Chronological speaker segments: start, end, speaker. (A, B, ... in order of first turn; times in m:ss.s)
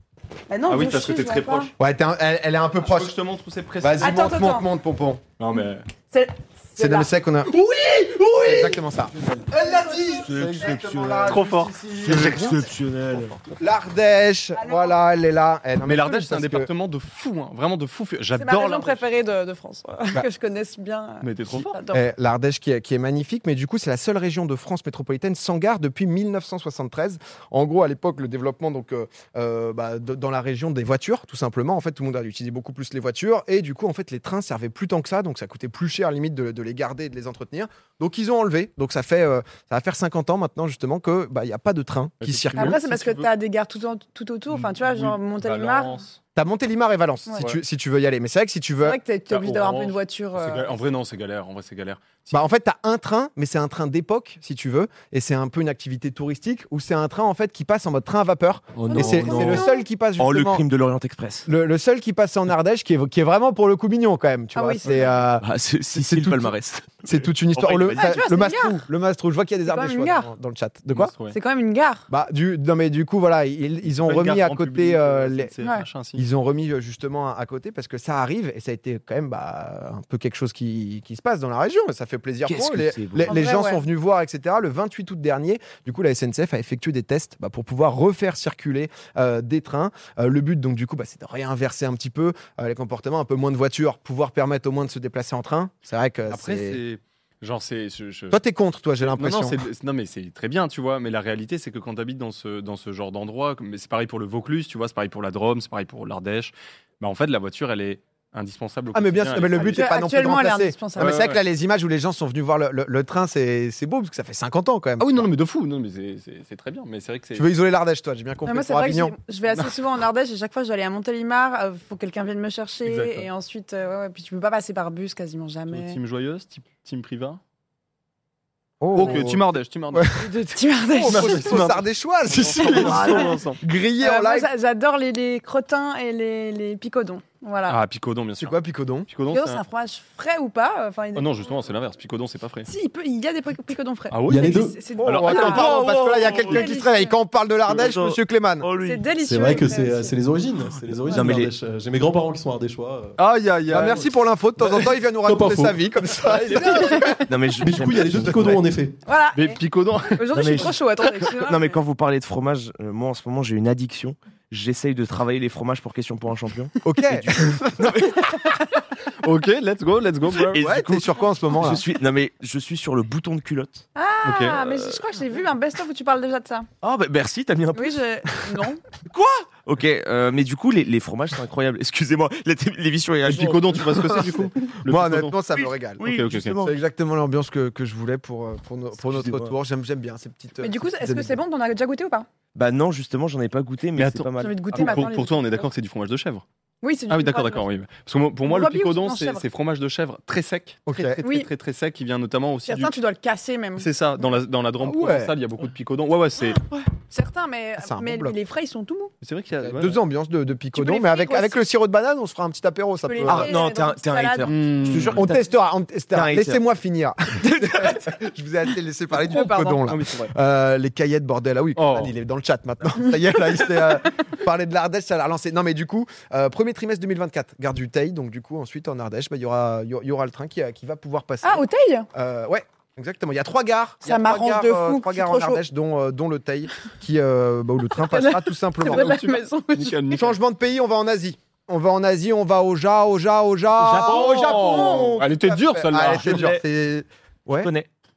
0:00.5-0:01.7 A
0:00.6-0:01.7 B
0:01.8-0:03.2 C
0:02.8-0:04.2 B
0:03.8-0:05.2 C
0:04.0-0:04.7 A
0:05.4-0:05.9 B
0:06.1-0:07.1 A
0:06.8-0:07.5 C
0:07.5-0:09.5 D
0:08.5-0:12.7 C
0:09.6-0:10.4 A
0:10.1-0:13.4 D
0:11.2-0:12.4 B
0:13.4-0:16.7 C
0:14.5-0:15.0 A
0:15.8-0:19.0 B
0:18.4-0:22.0 A
0:21.2-0:21.8 B
0:21.9-0:42.8 C
0:42.2-0:43.3 B
0:42.5-0:46.0 A
0:44.5-0:46.2 B
0:46.4-0:49.0 C
0:48.8-0:50.8 A
0:49.3-0:52.4 B
0:52.3-1:00.6 C
0:58.8-0:59.6 D
0:58.9-0:59.8 A
1:00.2-1:01.5 D
1:01.4-1:11.1 C
1:04.5-1:05.2 A
1:04.9-1:05.1 B
1:05.4-1:08.2 D
1:07.6-1:07.9 B
1:07.9-1:08.8 A
1:09.6-1:10.3 A
1:10.9-1:11.4 B
1:11.3-1:12.0 A
1:12.1-1:15.5 C
1:14.0-1:16.2 B
1:16.1-1:36.8 C
1:22.4-1:23.4 D
1:23.2-1:23.9 A
1:36.3-1:38.4 B
1:38.3-1:39.6 C
1:39.0-1:49.9 B
1:48.9-1:55.3 C
1:49.4-1:51.3 A
1:51.0-1:51.4 B
1:55.0-1:57.5 B
1:57.4-1:59.2 C
1:58.4-2:06.0 A
2:02.8-2:03.3 B
2:05.7-2:07.4 B
2:08.8-2:10.4 C
2:08.9-2:10.2 B
2:09.0-2:09.4 A
2:10.2-2:11.7 A
2:10.9-2:14.5 C
2:11.0-2:13.6 B
2:12.7-2:13.5 A
2:14.0-2:17.8 A
2:17.7-2:18.6 B
2:18.4-2:19.1 C
2:19.1-2:19.6 B
2:19.3-2:21.7 A
2:21.1-2:22.7 B
2:22.7-2:25.8 A
2:24.1-2:25.6 B
2:24.2-2:24.9 E
2:25.0-2:28.7 C
2:25.4-2:26.7 D
2:26.4-2:27.1 A
2:27.6-2:29.0 D
2:28.8-2:30.2 A
2:29.2-2:34.1 E
2:30.8-2:31.5 D
2:31.1-2:31.4 A
2:33.2-2:34.0 B
2:33.7-2:37.2 C
2:34.6-2:36.9 E
2:36.7-2:37.2 A
2:37.3-2:38.6 D
2:37.5-2:39.0 E
2:39.0-2:39.6 A
2:39.3-2:40.8 B
2:40.1-2:41.8 A
2:40.3-2:40.7 D
2:41.4-2:48.3 D
2:46.8-2:48.4 C
2:48.3-2:48.6 A
2:49.2-2:50.6 B
2:50.3-2:53.8 D
2:50.5-2:51.8 C
2:53.9-2:56.7 A
2:54.2-2:54.9 B
2:56.8-2:58.5 D
2:57.8-2:58.8 A
2:59.1-3:04.5 D
3:03.2-3:05.4 B
3:04.9-3:06.1 C
3:05.5-3:06.8 D
3:06.0-3:06.6 B
3:06.6-3:11.4 C
3:09.0-3:09.5 D
3:10.6-3:12.3 A
3:12.5-3:14.6 D
3:14.0-3:16.4 B
3:14.4-3:15.6 A
3:16.8-3:17.6 A
3:17.1-3:23.0 B
3:18.4-3:19.4 A
3:20.9-3:21.2 C
3:21.2-3:21.5 A
3:22.6-3:23.9 A
3:23.8-3:26.6 B
3:24.8-3:25.4 C
3:26.4-3:29.1 A
3:27.8-3:28.4 C
3:29.2-3:30.0 B
3:29.6-3:33.5 C
3:30.7-3:31.6 A
3:33.0-3:35.0 A
3:33.2-3:35.5 D
3:34.4-3:35.2 B
3:35.1-3:59.1 C
3:36.1-3:36.6 D
3:37.4-3:38.1 A
3:39.3-3:39.8 A
3:39.9-3:40.3 B
3:41.8-3:42.1 B
3:51.4-3:52.1 A
3:54.0-3:55.6 A
3:57.9-4:00.2 A
3:58.9-4:00.4 B
4:00.1-4:07.7 C
4:03.8-4:04.9 D
4:03.9-4:06.4 B
4:04.2-4:05.1 A
4:06.1-4:06.6 D
4:07.6-4:07.9 D